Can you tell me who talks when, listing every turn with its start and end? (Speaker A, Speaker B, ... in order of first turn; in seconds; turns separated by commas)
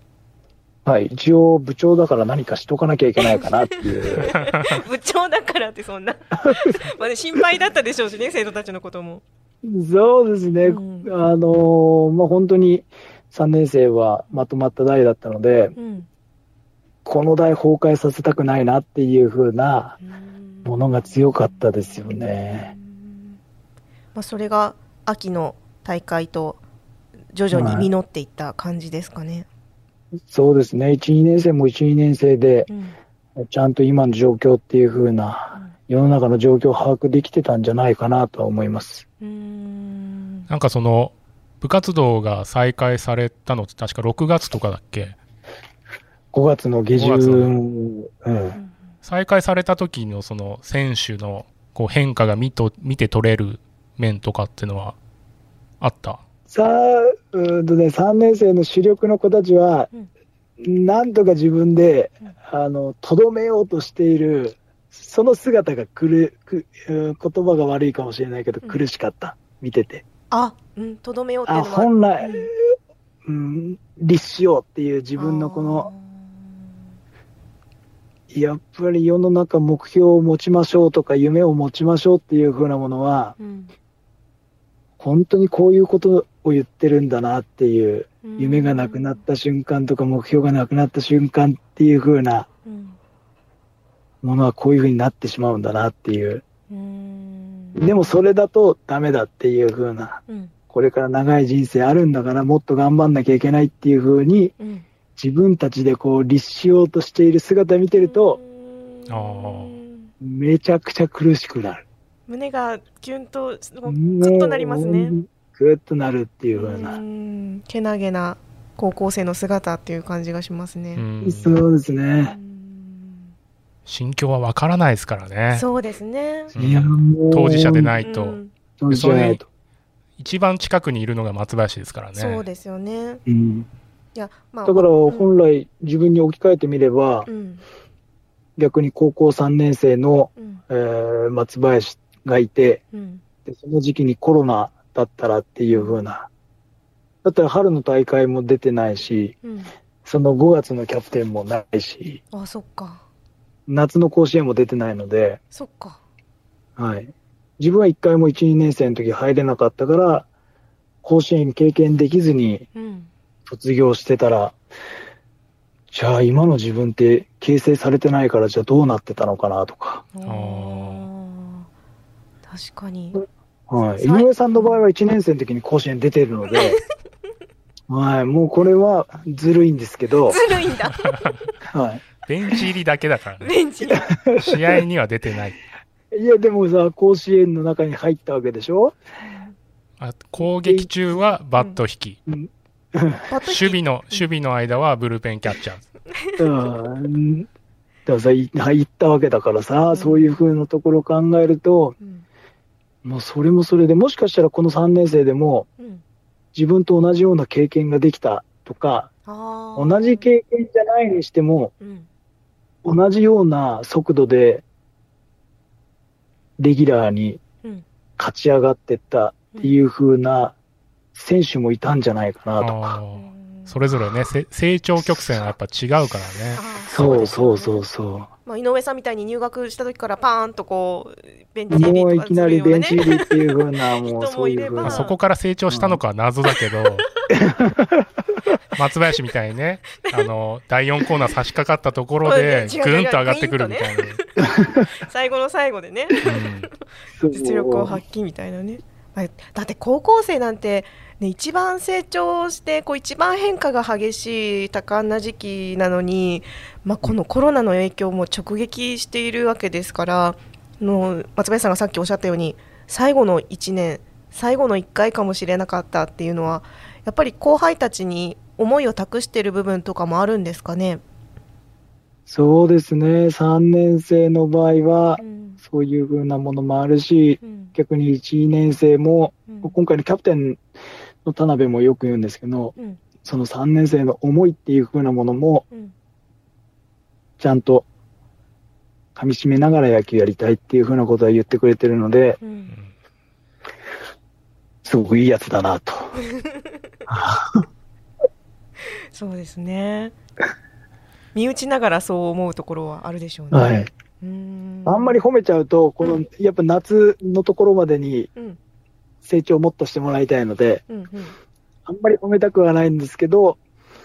Speaker A: 0.8-4.3, Speaker B: 3.2-9.2, Speaker C: 4.2-4.6, Speaker A: 9.6-15.7, Speaker B: 10.6-11.1, Speaker B: 15.8-16.1, Speaker A: 17.0-20.0, Speaker B: 20.0-23.4, Speaker A: 20.6-22.7, Speaker B: 24.1-26.6, Speaker B: 27.3-29.5, Speaker A: 27.5-27.9, Speaker A: 30.3-32.7, Speaker B: 32.7-33.0, Speaker A: 33.4-39.0, Speaker B: 39.2-40.5, Speaker C: 40.5-45.1, Speaker A: 46.3-48.6, Speaker C: 47.0-47.5, Speaker C: 49.0-55.0, Speaker C: 55.8-56.2, Speaker A: 56.5-59.9, Speaker A: 60.6-70.0, Speaker B: 70.3-72.5, Speaker A: 71.5-72.5, Speaker A: 73.2-75.9, Speaker B: 75.2-76.7, Speaker A: 78.3-83.4, Speaker B: 83.4-83.7, Speaker A: 85.0-92.5, Speaker B: 88.2-89.2, Speaker B: 92.7-93.0, Speaker A: 94.2-96.4, Speaker B: 96.7-98.1, Speaker A: 97.7-104.5, Speaker B: 104.6-104.8, Speaker A: 105.2-108.4, Speaker B: 108.0-110.1, Speaker C: 109.1-109.8, Speaker A: 110.2-111.8, Speaker B: 112.3-115.2, Speaker A: 113.9-117.0, Speaker B: 116.5-121.0, Speaker C: 120.9-121.5, Speaker A: 121.2-122.3, Speaker B: 122.3-123.3, Speaker C: 123.8-125.7, Speaker B: 125.5-126.5, Speaker C: 126.5-128.4, Speaker A: 126.5-127.9, Speaker B: 128.0-128.5, Speaker A: 128.8-129.4, Speaker C: 128.9-129.4, Speaker C: 130.2-132.4, Speaker B: 132.1-133.2, Speaker A: 133.3-133.7, Speaker B: 134.1-135.3, Speaker A: 134.6-137.3, Speaker B: 137.2-137.6, Speaker A: 138.6-142.8, Speaker B: 140.4-140.6, Speaker B: 142.9-143.2, Speaker A: 143.4-146.3, Speaker B: 145.7-146.0, Speaker A: 147.2-149.4, Speaker B: 149.4-149.7, Speaker A: 150.0-152.2, Speaker B: 152.3-153.0, Speaker A: 153.7-155.4, Speaker B: 155.5-156.0, Speaker A: 156.8-160.3, Speaker A: 161.0-162.7, Speaker B: 162.7-163.1, Speaker A: 163.4-164.6, Speaker A: 165.9-170.1, Speaker B: 170.2-171.7, Speaker C: 170.2-171.1, Speaker B: 172.5-173.2, Speaker A: 173.7-176.8, Speaker B: 174.0-174.8, Speaker B: 176.5-176.7, Speaker A: 177.9-180.4, Speaker B: 180.3-181.1, Speaker A: 181.7-182.1, Speaker C: 182.2-183.5, Speaker B: 183.4-184.0, Speaker A: 183.8-184.8, Speaker C: 184.3-185.6, Speaker A: 186.1-189.0, Speaker B: 189.2-189.5, Speaker C: 190.0-192.2, Speaker A: 190.6-190.9, Speaker A: 192.3-193.2, Speaker B: 193.3-194.2, Speaker C: 193.4-195.9, Speaker A: 196.4-197.5, Speaker A: 198.1-201.9, Speaker B: 199.9-200.4, Speaker B: 202.0-202.2, Speaker A: 203.0-205.7, Speaker A: 206.5-209.1, Speaker B: 209.3-210.3, Speaker A: 209.7-211.7, Speaker B: 211.8-212.1, Speaker A: 212.8-214.6, Speaker A: 216.6-217.4, Speaker A: 218.2-220.5, Speaker A: 221.1-223.0, Speaker C: 222.6-226.6, Speaker B: 223.1-223.8, Speaker B: 226.6-227.8, Speaker A: 226.9-228.3, Speaker B: 228.4-235.1, Speaker A: 231.7-235.1, Speaker C: 234.8-237.1, Speaker A: 235.7-236.0, Speaker A: 237.3-238.1, Speaker C: 238.7-244.2, Speaker B: 240.0-240.3, Speaker B: 242.2-244.3, Speaker B: 244.9-246.3, Speaker C: 246.2-246.7, Speaker A: 247.1-248.0, Speaker B: 247.3-271.0, Speaker A: 272.3-280.6, Speaker B: 275.2-275.6, Speaker B: 277.4-277.7, Speaker B: 279.5-279.7, Speaker A: 281.2-285.6, Speaker A: 287.4-287.9, Speaker A: 289.1-292.4, Speaker B: 292.4-292.7, Speaker A: 294.8-296.1, Speaker B: 296.3-296.7, Speaker A: 297.1-297.6, Speaker B: 299.1-300.1, Speaker B: 301.3-305.2, Speaker A: 303.5-303.9, Speaker A: 304.9-308.3, Speaker A: 309.2-310.8, Speaker B: 310.9-311.3, Speaker A: 311.9-313.6